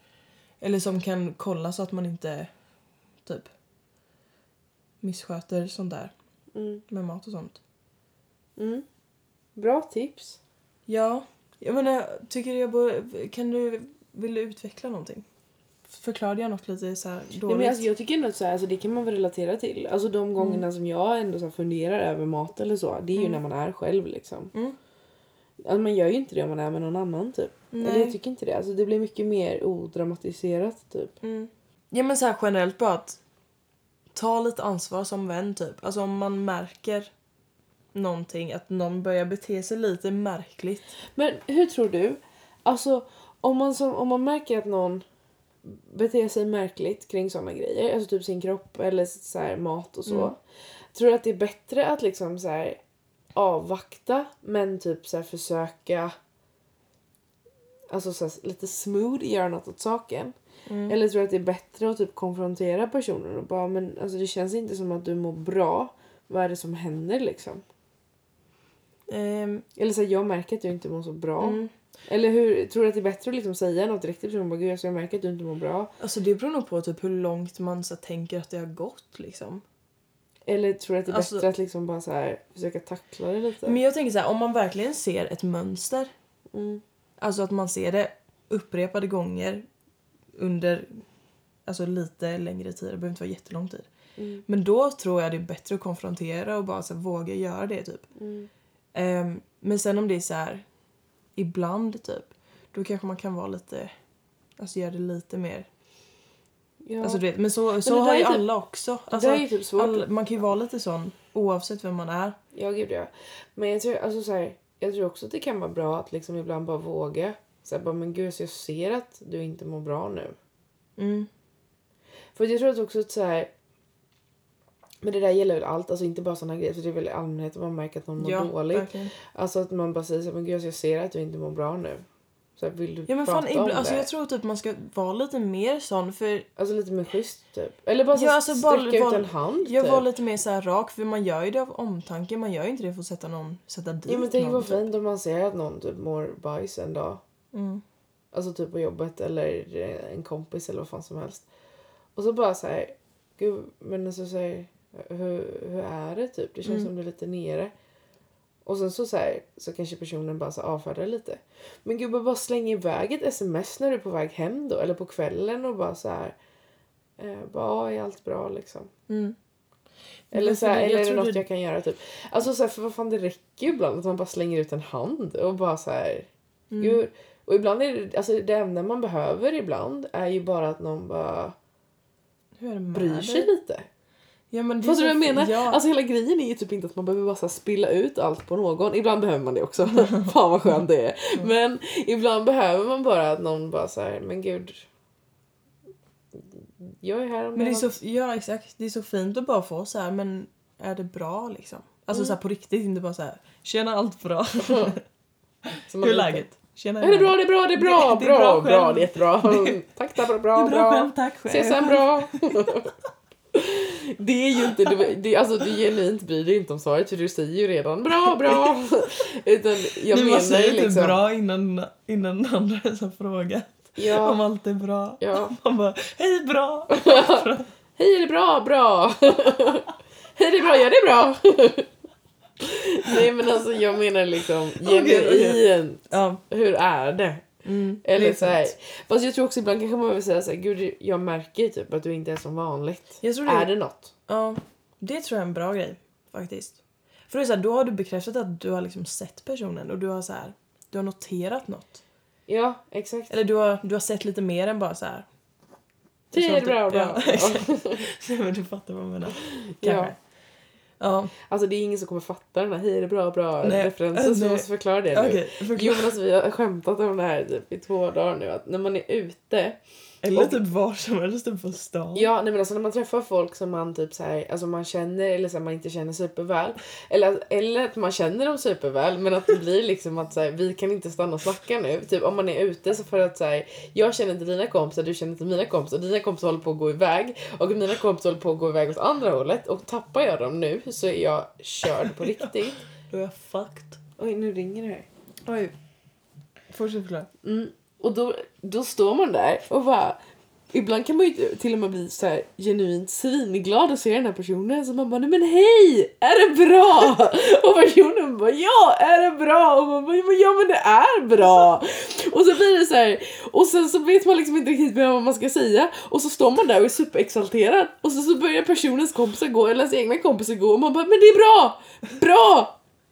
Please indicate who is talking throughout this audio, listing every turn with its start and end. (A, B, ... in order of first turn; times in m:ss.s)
0:00.6-0:02.5 A
0:03.2-0:03.5 A
0:05.0-0:06.1 A
0:06.5-0:06.8 B
0:06.9-0:07.6 A
0:08.6-0:08.8 B
0:09.6-0:10.4 B
0:10.9-0:15.2 A
0:15.9-0:17.9 A
0:17.5-0:24.5 B
0:20.4-0:20.7 A
0:23.2-0:23.4 A
0:25.6-0:31.2 B
0:27.7-0:28.2 A
0:31.2-0:33.2 A
0:34.2-0:37.1 A
0:37.9-0:40.9 A
0:41.2-0:45.0 B
0:45.6-0:50.4 B
0:50.1-0:50.3 A
0:50.9-0:52.8 B
0:53.4-0:56.1 B
0:57.9-1:00.3 B
1:00.7-1:01.0 A
1:00.9-1:07.6 B
1:09.1-1:09.6 A
1:09.8-1:15.9 B
1:11.4-1:11.7 A
1:16.0-1:19.6 A
1:20.5-1:23.8 B
1:21.1-1:21.5 A
1:23.6-1:26.1 A
1:26.5-1:26.8 B
1:27.2-1:29.6 A
1:30.4-1:31.0 A
1:31.7-1:33.9 A
1:34.2-1:34.4 B
1:34.5-1:38.1 A
1:38.2-1:38.5 B
1:38.9-1:40.6 A
1:41.4-1:43.9 A
1:44.6-1:45.7 A
1:46.8-1:47.2 B
1:47.0-1:52.4 A
1:47.8-1:48.5 B
1:49.1-1:50.1 B
1:52.5-2:00.4 B
2:01.0-2:01.3 A
2:02.4-2:03.5 B
2:05.0-2:12.0 B
2:08.2-2:09.1 A
2:12.6-2:14.1 B
2:13.1-2:16.5 A
2:16.6-2:20.0 B
2:18.1-2:24.8 A
2:24.1-2:27.2 B
2:27.5-2:27.8 A
2:28.3-2:31.5 B
2:32.2-2:37.7 B
2:36.6-2:36.9 A
2:38.7-2:46.4 B
2:47.2-2:48.9 B
2:49.1-2:49.4 A
2:50.3-2:51.4 A
2:50.3-3:01.6 B
2:56.7-2:57.0 A
3:02.6-3:03.5 A
3:02.9-3:03.9 B
3:04.5-3:05.8 A
3:04.8-3:14.9 B
3:09.9-3:10.3 A
3:16.4-3:18.0 B
3:17.6-3:25.0 A
3:22.1-3:22.4 B
3:24.6-3:24.9 B
3:25.7-3:29.8 A
3:25.9-3:26.5 B
3:27.0-3:32.9 B
3:30.5-3:32.7 A
3:33.5-3:41.2 B
3:34.7-3:35.0 A
3:38.2-3:38.7 A
3:40.1-3:47.7 A
3:44.0-3:44.4 B
3:45.2-3:45.6 B
3:46.9-3:51.9 B
3:52.6-3:57.5 B
3:54.8-3:56.4 A
3:57.6-3:58.7 A
3:58.0-4:04.1 B
4:03.2-4:03.7 A
4:04.3-4:12.0 A
4:12.5-4:13.4 B
4:13.3-4:15.3 A
4:16.3-4:18.0 B
4:16.3-4:20.2 A
4:19.4-4:20.1 B
4:21.0-4:21.3 A
4:21.4-4:29.8 B
4:23.6-4:26.1 A
4:30.2-4:32.3 A
4:30.3-4:30.6 B
4:32.2-4:52.8 B
4:52.1-4:52.6 A
4:53.1-4:54.0 A
4:54.2-4:55.1 B
4:55.4-4:55.7 A
4:56.7-4:57.3 A
4:57.4-5:00.2 B
5:00.7-5:22.8 B